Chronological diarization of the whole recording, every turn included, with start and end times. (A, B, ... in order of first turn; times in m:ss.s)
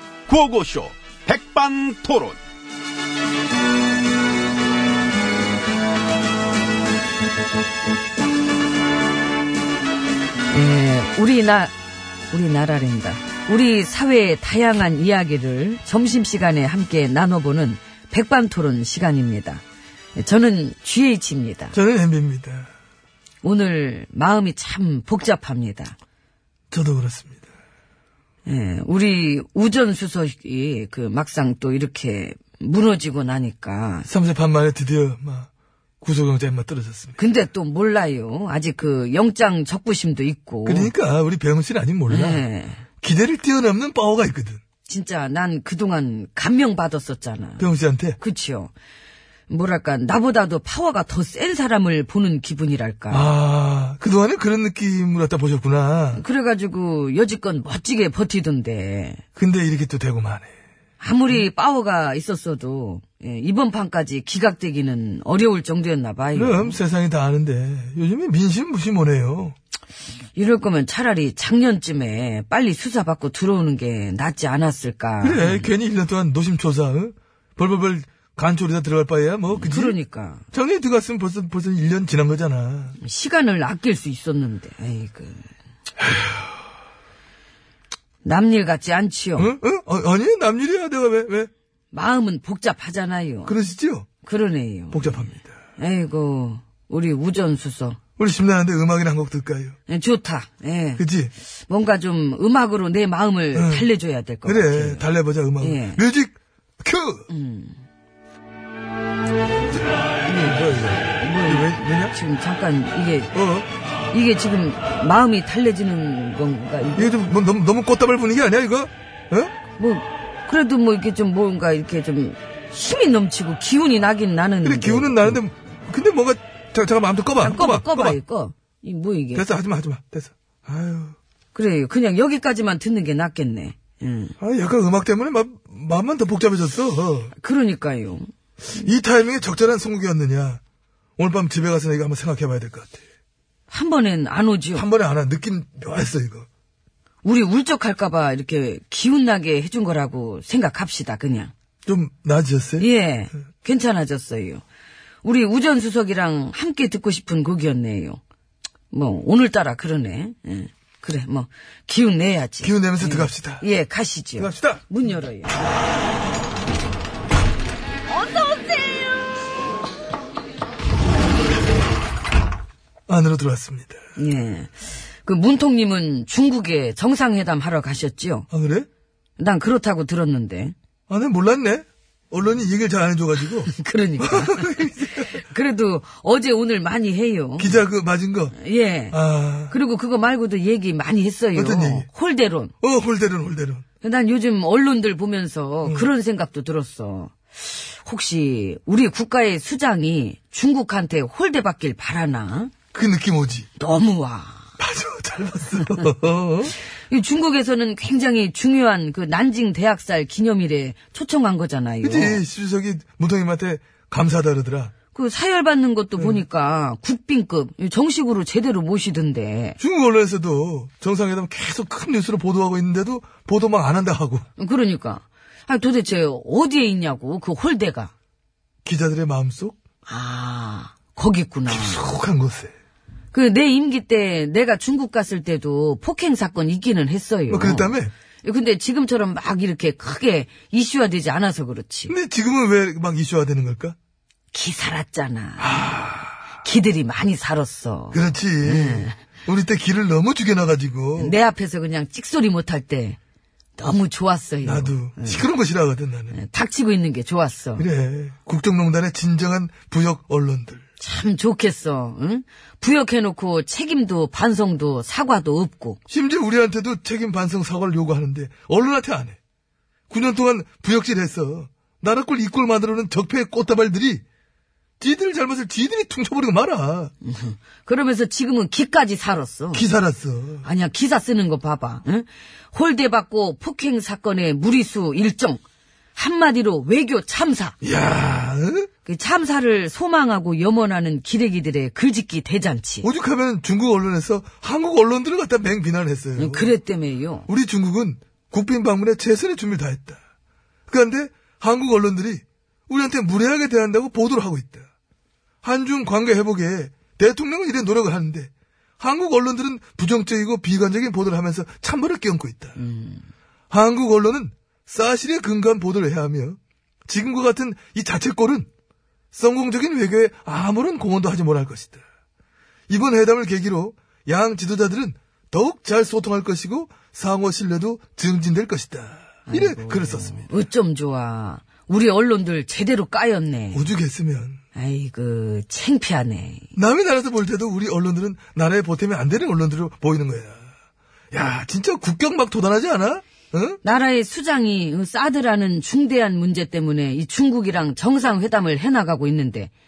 0:00.3-0:02.4 A
0:10.5-0:11.7 B
0:12.3-0:19.6 B
0:20.2-0:21.8 B
0:21.7-0:22.7 C
0:23.4-0:26.0 B
0:26.7-0:27.4 C
0:28.5-0:34.1 B
0:34.1-0:35.5 C
0:36.0-0:37.2 C
0:37.2-0:40.9 B
0:40.6-0:42.4 C
0:42.1-0:42.8 B
0:43.0-0:44.6 C
0:44.8-0:48.7 B
0:47.6-0:48.2 C
0:49.5-0:53.3 B
0:53.1-0:56.2 C
0:56.1-0:59.2 B
0:59.4-1:00.5 C
1:01.0-1:06.8 B
1:06.4-1:09.6 C
1:10.4-1:15.7 B
1:15.2-1:20.0 C
1:19.5-1:20.4 B
1:20.5-1:23.0 C
1:23.0-1:25.5 B
1:28.2-1:29.5 B
1:29.4-1:31.5 C
1:31.9-1:33.6 B
1:33.5-1:34.1 C
1:34.2-1:38.0 B
1:34.9-1:35.5 C
1:38.2-1:39.8 C
1:39.9-1:41.0 B
1:41.0-1:41.3 C
1:41.6-1:45.1 B
1:43.5-1:43.9 C
1:44.4-1:47.3 C
1:45.6-1:46.0 B
1:47.3-1:47.9 B
1:50.2-1:52.2 C
1:51.2-1:53.3 B
1:53.3-1:53.7 C
1:54.1-1:57.1 B
1:57.0-1:59.5 C
1:59.8-2:05.4 B
2:04.6-2:08.2 C
2:07.4-2:09.5 B
2:09.4-2:11.2 C
2:11.5-2:14.4 B
2:14.4-2:17.3 C
2:17.4-2:18.3 B
2:18.8-2:20.6 C
2:21.2-2:23.0 C
2:23.7-2:24.9 B
2:24.7-2:26.5 C
2:27.2-2:31.5 B
2:31.9-2:32.9 C
2:32.8-2:34.6 B
2:35.2-2:38.2 B
2:38.9-2:45.6 B
2:42.6-2:43.6 C
2:44.4-2:44.9 C
2:53.1-2:54.0 C
2:54.2-2:58.5 B
2:58.5-2:58.9 C
2:59.4-3:00.8 B
3:01.1-3:05.3 C
3:03.7-3:07.8 B
3:07.6-3:08.6 C
3:08.5-3:12.7 B
3:09.1-3:09.8 C
3:11.6-3:12.1 C
3:12.8-3:13.8 C
3:14.0-3:22.7 B
3:15.8-3:16.1 C
3:22.9-3:23.7 C
3:23.8-3:24.7 B
3:24.8-3:26.8 C
3:27.1-3:32.4 B
3:32.0-3:34.9 C
3:35.1-3:39.8 B
3:39.8-3:44.5 C
3:44.6-3:48.1 B
3:48.8-3:49.8 C
3:50.1-3:52.1 B
3:51.7-3:52.7 C
3:53.3-4:02.2 B
3:57.5-3:58.1 C
4:02.1-4:04.0 C
4:04.5-4:05.8 B
4:05.6-4:06.3 C
4:06.5-4:09.2 B
4:08.1-4:11.4 C
4:11.2-4:13.2 B
4:13.8-4:15.5 B
4:14.6-4:16.4 C
4:16.3-4:17.9 B
4:17.8-4:20.8 C
4:21.0-4:26.0 B
4:26.1-4:29.4 C
4:30.1-4:34.2 C
4:35.0-4:37.1 C
4:37.2-4:39.9 B
4:39.7-4:40.6 C
4:40.6-4:45.6 B
4:46.2-4:47.8 B
4:47.8-4:48.9 C
4:49.0-4:53.1 B
4:53.0-4:56.8 C
4:56.4-4:57.5 B
4:57.5-5:00.2 C
5:00.9-5:04.9 C
5:05.6-5:12.8 C
5:12.8-5:13.3 B
5:13.7-5:18.7 C
5:19.3-5:22.0 C
5:22.9-5:30.5 C
5:29.5-5:33.9 B
5:33.7-5:34.6 C
5:34.7-5:36.7 B
5:36.8-5:40.6 C
5:41.3-5:43.8 C
5:43.8-5:49.7 B